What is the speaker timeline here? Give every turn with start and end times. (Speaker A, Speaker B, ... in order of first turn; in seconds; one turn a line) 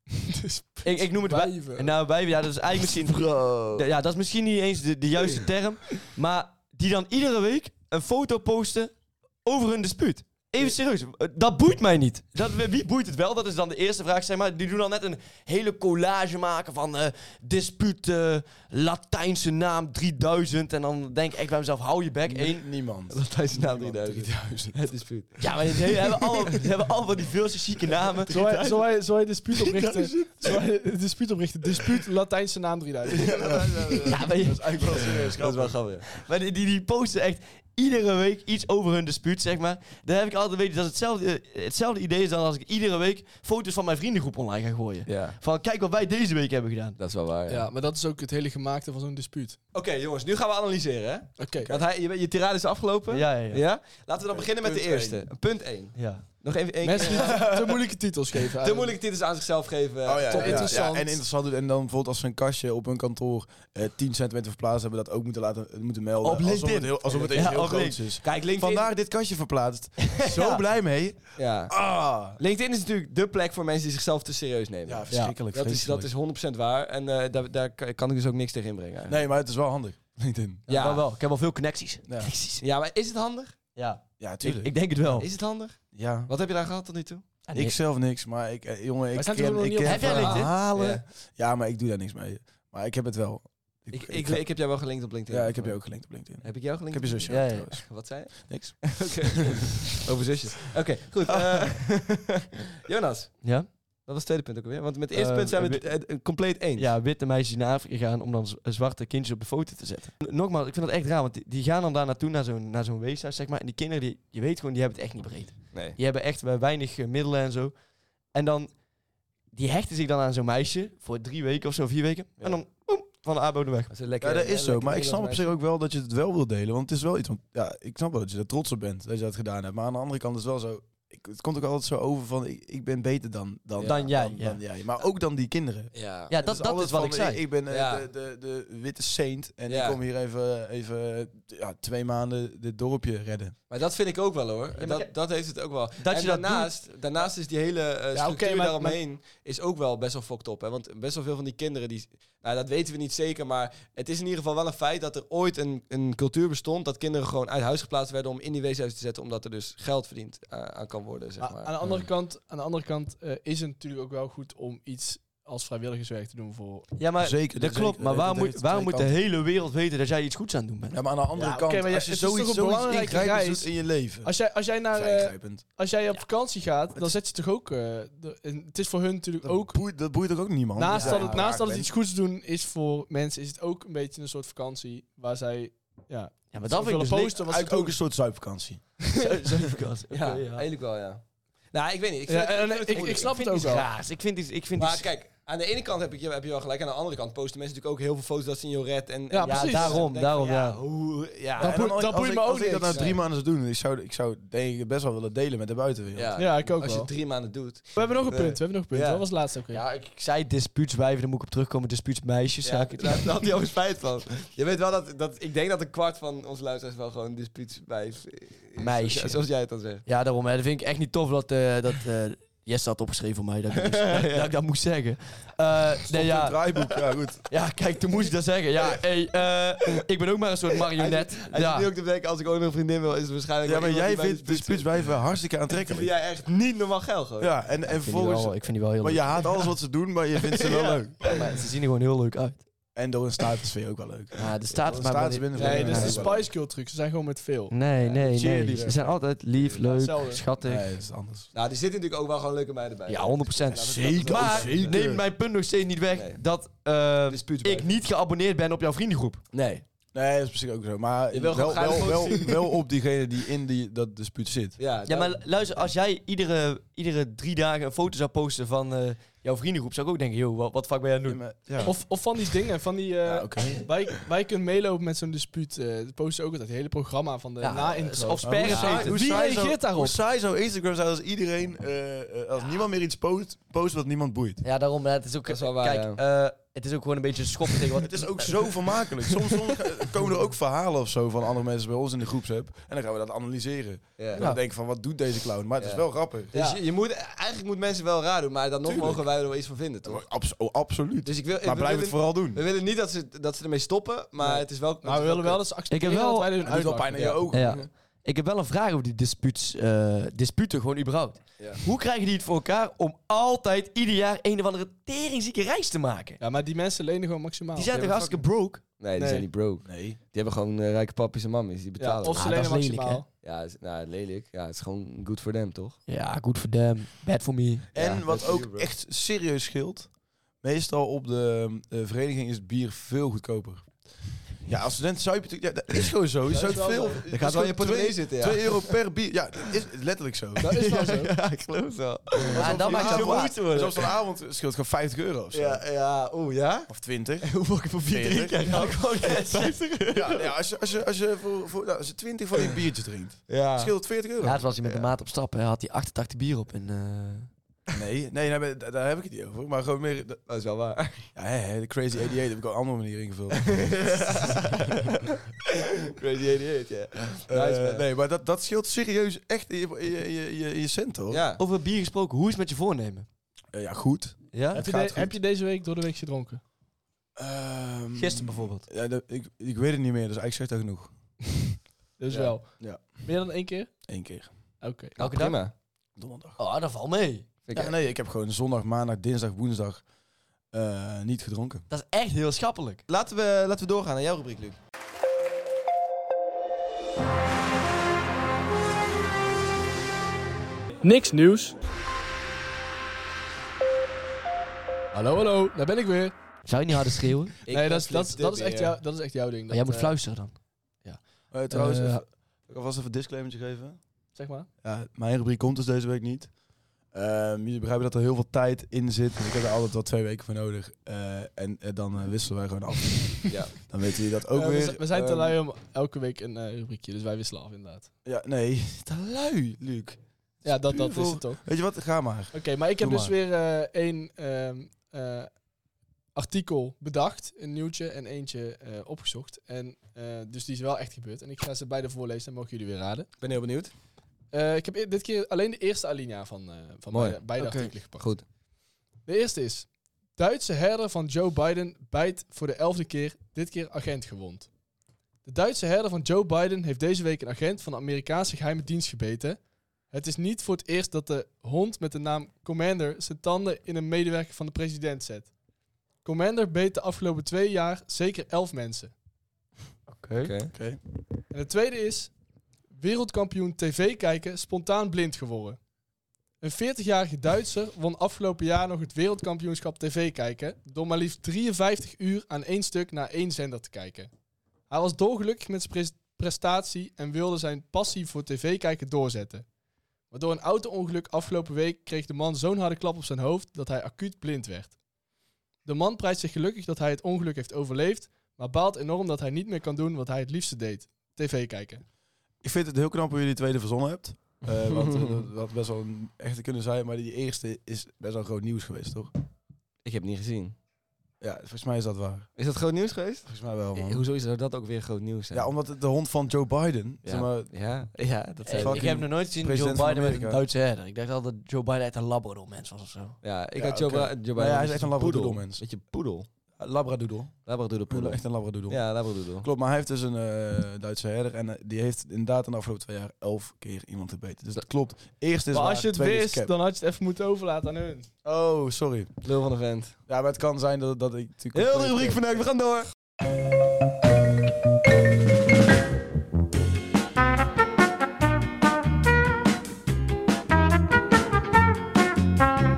Speaker A: 0.2-1.9
Speaker B: 0.8-22.7
Speaker C: 3.1-3.9
Speaker C: 22.3-24.8
Speaker D: 23.1-25.4
Speaker B: 25.4-28.8
Speaker A: 28.3-33.7
Speaker C: 29.6-30.5
Speaker C: 33.2-35.8
Speaker D: 33.2-34.3
Speaker B: 34.0-35.3
Speaker D: 34.9-36.1
Speaker B: 36.0-47.0
Speaker D: 45.1-45.4
Speaker D: 47.0-47.7
Speaker A: 47.5-49.6
Speaker D: 49.7-57.6
Speaker A: 51.4-51.7
Speaker B: 53.1-53.6
Speaker C: 54.3-55.2
Speaker B: 56.0-56.3
Speaker A: 56.8-59.0
Speaker C: 57.0-57.8
Speaker D: 58.6-60.9
Speaker C: 60.0-72.4
Speaker A: 60.3-61.2
Speaker B: 66.2-68.1
Speaker D: 67.1-67.6
Speaker D: 68.2-68.9
Speaker D: 71.4-79.2
Speaker C: 74.8-76.1
Speaker C: 79.1-80.7
Speaker D: 80.7-81.0
Speaker B: 80.7-82.6
Speaker C: 82.1-82.3
Speaker D: 82.6-83.6
Speaker B: 83.8-85.3
Speaker C: 84.2-84.9
Speaker D: 85.1-87.2
Speaker C: 85.9-86.3
Speaker B: 87.5-87.8
Speaker C: 87.5-94.5
Speaker A: 89.1-90.3
Speaker B: 89.8-90.6
Speaker D: 90.0-91.0
Speaker D: 93.9-95.8
Speaker C: 95.3-99.7
Speaker D: 96.4-106.9
Speaker B: 97.3-97.8
Speaker C: 101.3-101.7
Speaker B: 103.4-103.7
Speaker B: 105.1-105.9
Speaker B: 106.8-117.8
Speaker D: 115.7-116.0
Speaker B: 118.3-118.8
Speaker B: 119.5-123.9
Speaker D: 123.9-125.4
Speaker C: 124.2-143.6
Speaker B: 133.8-134.6
Speaker D: 135.9-136.3
Speaker B: 136.3-137.5
Speaker D: 137.7-138.0
Speaker D: 139.7-140.0
Speaker D: 143.7-161.7
Speaker B: 144.8-145.1
Speaker B: 146.0-146.8
Speaker A: 148.1-149.0
Speaker A: 161.4-166.9
Speaker B: 167.0-171.0
Speaker C: 167.2-169.2
Speaker C: 170.9-174.3
Speaker A: 171.3-179.9
Speaker C: 174.9-175.6
Speaker C: 179.4-181.9
Speaker A: 180.8-188.0
Speaker B: 180.9-181.4
Speaker B: 186.5-187.4
Speaker C: 187.4-189.2
Speaker A: 189.1-189.4
Speaker B: 189.2-190.7
Speaker D: 190.1-193.3
Speaker A: 192.3-193.9
Speaker B: 192.9-195.1
Speaker D: 194.8-201.9
Speaker A: 199.3-200.1
Speaker B: 199.4-200.8
Speaker A: 201.6-203.0
Speaker C: 201.6-206.4
Speaker D: 202.8-203.2
Speaker D: 206.1-209.2
Speaker A: 206.4-207.1
Speaker A: 207.9-209.8
Speaker B: 209.7-213.4
Speaker D: 212.7-220.1
Speaker B: 218.8-219.5
Speaker B: 220.1-231.9
Speaker D: 223.8-224.5
Speaker C: 226.1-227.4
Speaker D: 230.9-235.1
Speaker C: 233.6-236.1
Speaker D: 235.7-237.5
Speaker C: 237.4-241.4
Speaker B: 237.8-239.6
Speaker D: 240.6-241.5
Speaker B: 241.2-242.7
Speaker C: 242.9-246.5
Speaker B: 244.4-246.3
Speaker A: 245.6-247.9
Speaker B: 247.7-250.9
Speaker D: 248.0-248.2
Speaker C: 248.2-249.2
Speaker A: 249.8-250.4
Speaker C: 250.6-251.5
Speaker D: 251.5-255.1
Speaker B: 253.1-259.4
Speaker C: 253.8-255.2
Speaker D: 256.1-256.4
Speaker D: 257.3-258.0
Speaker D: 259.5-259.8
Speaker C: 260.1-264.8
Speaker D: 261.3-262.6
Speaker D: 264.8-265.4
Speaker B: 265.1-271.9
Speaker C: 271.3-272.0
Speaker A: 271.8-280.2
Speaker C: 273.2-274.2
Speaker B: 277.6-279.3
Speaker C: 278.4-284.6
Speaker D: 278.7-279.2
Speaker B: 284.6-289.3
Speaker D: 285.5-286.2
Speaker C: 288.0-296.5
Speaker D: 294.2-294.5
Speaker D: 295.8-300.2
Speaker A: 296.6-296.8
Speaker C: 298.8-299.3
Speaker C: 300.1-302.6
Speaker D: 301.2-305.6
Speaker A: 304.4-307.6
Speaker B: 305.9-306.8
Speaker C: 306.6-307.9
Speaker B: 307.5-316.4
Speaker A: 316.4-318.4
Speaker B: 317.8-318.9
Speaker D: 319.0-322.7
Speaker A: 319.2-319.5
Speaker C: 319.9-320.2
Speaker A: 322.0-323.3
Speaker B: 322.3-323.2
Speaker D: 323.4-326.0
Speaker B: 326.1-328.0
Speaker C: 327.9-330.1
Speaker D: 327.9-328.9
Speaker C: 330.6-334.1
Speaker C: 334.6-340.7
Speaker A: 336.5-337.3
Speaker D: 337.3-338.9
Speaker A: 340.6-341.3
Speaker D: 340.6-344.1
Speaker C: 342.4-345.8
Speaker B: 342.6-343.6
Speaker D: 345.5-350.5
Speaker C: 346.9-348.6
Speaker B: 348.6-349.8
Speaker C: 350.1-354.8
Speaker D: 353.5-353.9
Speaker B: 354.4-357.5
Speaker C: 357.9-360.4
Speaker D: 360.5-361.3
Speaker C: 361.4-364.1
Speaker D: 363.6-365.3
Speaker D: 366.1-368.0
Speaker C: 367.5-371.4
Speaker D: 371.3-371.6
Speaker B: 371.6-373.3
Speaker C: 373.7-375.4
Speaker B: 374.5-374.9
Speaker A: 374.7-376.6
Speaker C: 377.4-381.1
Speaker B: 378.1-378.9
Speaker A: 381.6-384.0
Speaker D: 382.3-382.6
Speaker C: 382.8-383.2
Speaker C: 384.1-384.5
Speaker A: 384.8-385.2
Speaker D: 385.2-385.7
Speaker B: 385.2-385.6
Speaker C: 386.2-386.6
Speaker B: 386.6-387.5
Speaker D: 387.7-387.9
Speaker C: 387.7-390.1
Speaker C: 390.7-391.8
Speaker B: 391.9-393.0
Speaker D: 393.1-394.8
Speaker A: 401.0-401.8
Speaker A: 405.1-406.3
Speaker B: 406.6-407.6
Speaker D: 407.7-409.0
Speaker A: 407.7-410.2
Speaker B: 409.7-412.2
Speaker C: 411.5-414.0
Speaker A: 414.4-414.7
Speaker C: 414.8-416.5
Speaker C: 417.1-425.6
Speaker D: 423.5-423.7
Speaker A: 424.5-428.1
Speaker C: 428.2-430.2
Speaker A: 430.6-431.7
Speaker C: 430.7-433.3
Speaker A: 432.5-435.6
Speaker A: 436.4-443.3
Speaker D: 443.4-443.9
Speaker A: 444.5-448.3
Speaker D: 447.1-447.4
Speaker B: 447.6-447.9
Speaker D: 448.1-448.4
Speaker A: 449.2-454.7
Speaker A: 455.4-465.5
Speaker A: 466.2-469.1
Speaker B: 470.1-470.6
Speaker D: 470.4-470.7
Speaker C: 470.7-471.0
Speaker A: 471.5-472.3
Speaker A: 472.9-475.8
Speaker A: 476.6-484.3
Speaker A: 484.9-489.7
Speaker A: 490.3-495.0
Speaker A: 495.8-502.0
Speaker C: 502.6-509.3
Speaker D: 504.9-505.4
Speaker D: 510.0-510.8
Speaker C: 511.4-512.5
Speaker D: 512.6-515.7
Speaker C: 513.5-514.2
Speaker C: 515.5-517.7
Speaker D: 517.2-519.2
Speaker B: 518.6-523.4
Speaker C: 518.8-520.6
Speaker D: 523.4-526.5
Speaker C: 523.8-525.8
Speaker C: 526.8-527.5
Speaker D: 527.7-529.7
Speaker C: 528.1-536.7
Speaker A: 535.7-538.3
Speaker C: 538.4-539.3
Speaker D: 539.4-540.1
Speaker C: 540.3-542.6
Speaker D: 541.7-543.1